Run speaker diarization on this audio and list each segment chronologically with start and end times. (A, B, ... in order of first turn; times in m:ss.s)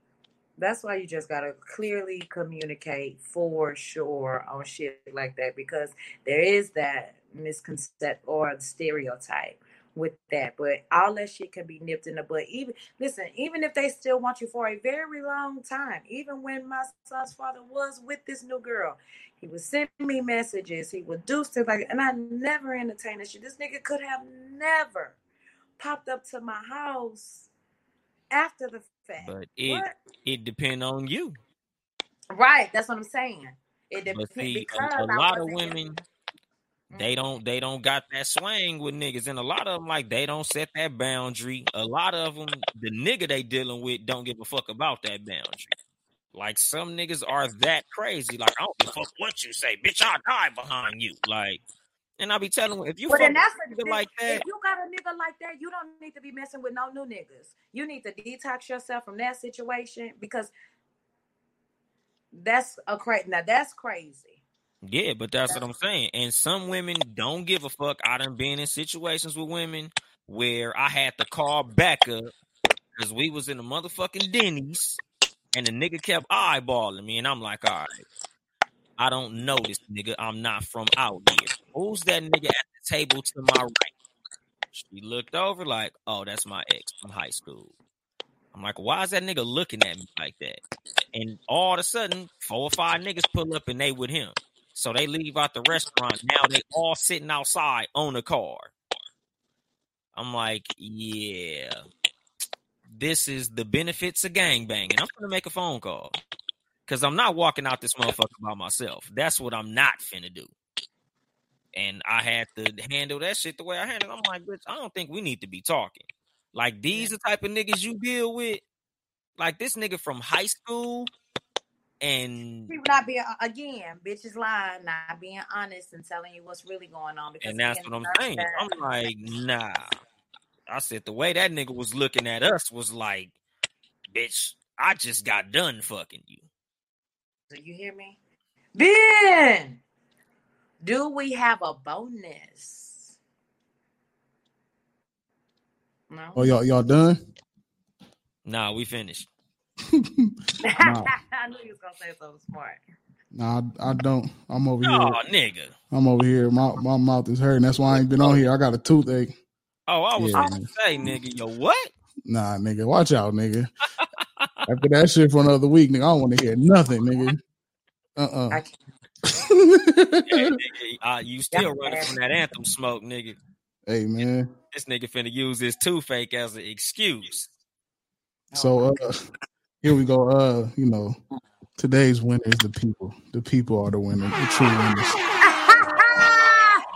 0:00.6-0:25.2 A
0:25.8-0:27.5 A
0:28.3-0:29.9 A
0:29.2-0:31.4 B
0:32.3-0:36.0 A
0:34.1-0:36.0 B
0:36.9-0:37.2 A
0:36.9-0:45.7 B
0:46.3-0:51.6 B
0:52.2-0:54.4 B
0:53.1-1:00.5 A
1:02.4-1:04.4 A
1:04.8-1:12.3 B
1:13.0-1:15.0 B
1:15.5-1:18.0 B
1:19.0-1:23.9 B
1:24.7-1:27.7 B
1:28.5-1:30.6 B
1:31.1-1:38.7 B
1:40.1-1:41.8 B
1:42.9-1:46.2 B
1:46.9-1:50.5 B
1:51.7-1:58.6 B
1:59.4-2:01.1 B
2:02.0-2:02.7 B
2:02.7-2:08.7 A
2:07.4-2:10.0 B
2:10.7-2:13.3 B
2:14.1-2:16.4 B
2:17.5-2:18.2 A
2:18.7-2:19.8 A
2:20.8-2:23.1 A
2:26.1-2:26.4 A
2:26.4-2:27.2 C
2:28.4-2:29.3 B
2:29.9-2:31.1 C
2:30.6-2:32.8 A
2:33.3-2:35.2 C
2:34.8-2:35.7 B
2:35.9-2:39.3 C
2:37.9-2:38.4 B
2:39.9-2:41.9 B
2:40.2-2:40.7 C
2:42.2-2:43.7 C
2:44.0-2:44.5 B
2:44.6-2:47.4 C
2:48.2-2:48.6 C
2:48.5-2:48.8 A
2:49.4-2:50.6 C
2:50.3-2:53.4 B
2:51.5-2:52.1 A
2:53.8-2:54.5 C
2:54.2-2:57.5 B
2:58.5-2:59.0 A
2:58.6-2:59.2 C
2:59.8-3:01.2 C
3:01.8-3:05.2 C
3:05.4-3:06.8 A